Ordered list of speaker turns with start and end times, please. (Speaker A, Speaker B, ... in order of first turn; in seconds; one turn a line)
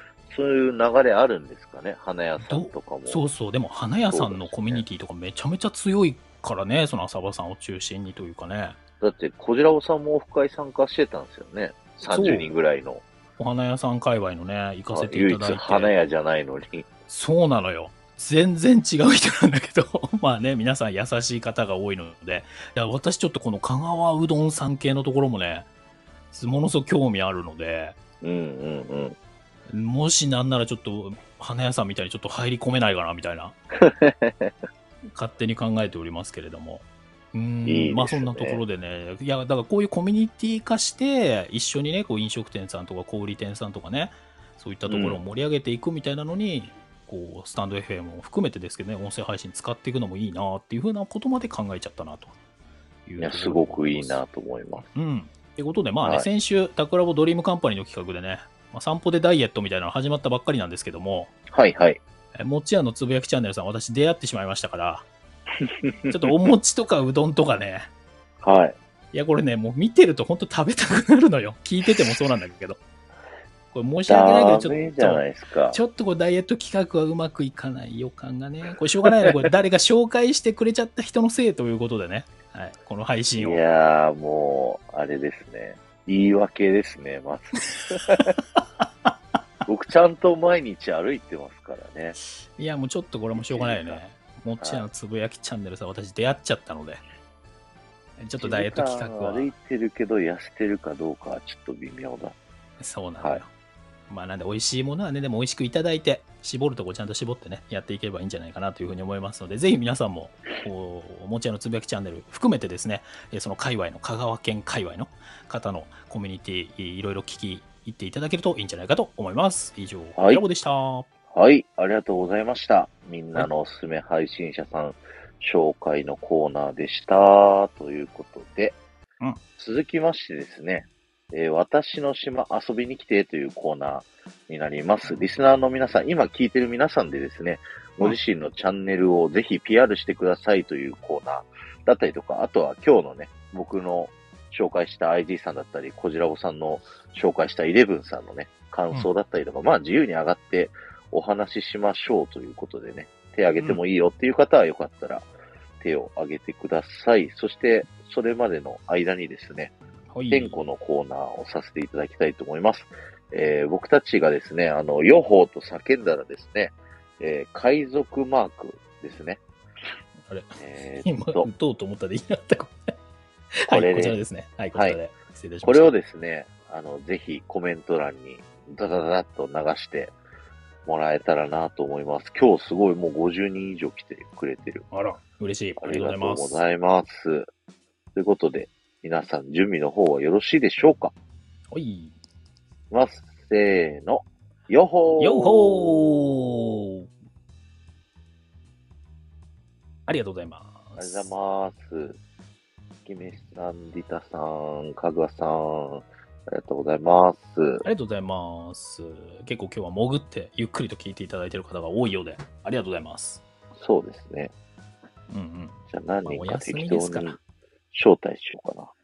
Speaker A: 0.3-3.2
Speaker B: 2.4-8.8
Speaker A: 4.1-4.8
Speaker A: 9.0-13.0
Speaker B: 12.1-12.5
Speaker B: 13.4-15.9
Speaker A: 14.9-16.9
Speaker B: 17.1-25.7
Speaker B: 26.3-28.0
Speaker A: 28.2-29.2
Speaker B: 29.7-33.5
Speaker A: 33.8-34.5
Speaker B: 35.1-52.3
Speaker A: 37.7-38.6
Speaker A: 44.9-45.2
Speaker B: 53.1-54.2
Speaker A: 53.2-54.9
Speaker B: 54.9-61.3
Speaker A: 56.0-56.3
Speaker A: 61.5-62.0
Speaker B: 62.4-65.1
Speaker A: 65.6-66.1
Speaker B: 66.1-67.9
Speaker A: 68.4-68.8
Speaker B: 69.1-72.8
Speaker B: 73.7-83.6
Speaker A: 74.1-75.8
Speaker A: 83.4-88.4
Speaker A: 89.7-92.2
Speaker B: 92.6-97.0
Speaker A: 93.3-94.0
Speaker A: 94.6-94.9
Speaker B: 98.2-99.5
Speaker A: 98.4-102.3
Speaker B: 102.8-103.5
Speaker B: 104.1-121.1
Speaker A: 120.2-120.4
Speaker A: 121.3-128.8
Speaker A: 129.6-155.3
Speaker A: 155.8-159.8
Speaker B: 160.1-160.6
Speaker A: 160.3-169.4
Speaker B: 170.3-172.9
Speaker A: 170.6-171.5
Speaker B: 173.6-175.9
Speaker A: 173.7-174.2
Speaker A: 174.7-175.0
Speaker A: 175.6-180.1
Speaker A: 180.8-184.8
Speaker B: 184.9-186.6
Speaker A: 185.8-187.5
Speaker A: 188.2-191.1
Speaker B: 191.7-192.2
Speaker A: 192.9-196.1
Speaker B: 195.2-197.1
Speaker B: 200.1-201.3
Speaker A: 201.0-202.2
Speaker A: 203.1-207.8
Speaker B: 207.8-213.4
Speaker A: 213.8-214.5
Speaker B: 215.3-217.4
Speaker A: 215.9-217.4
Speaker A: 217.9-218.9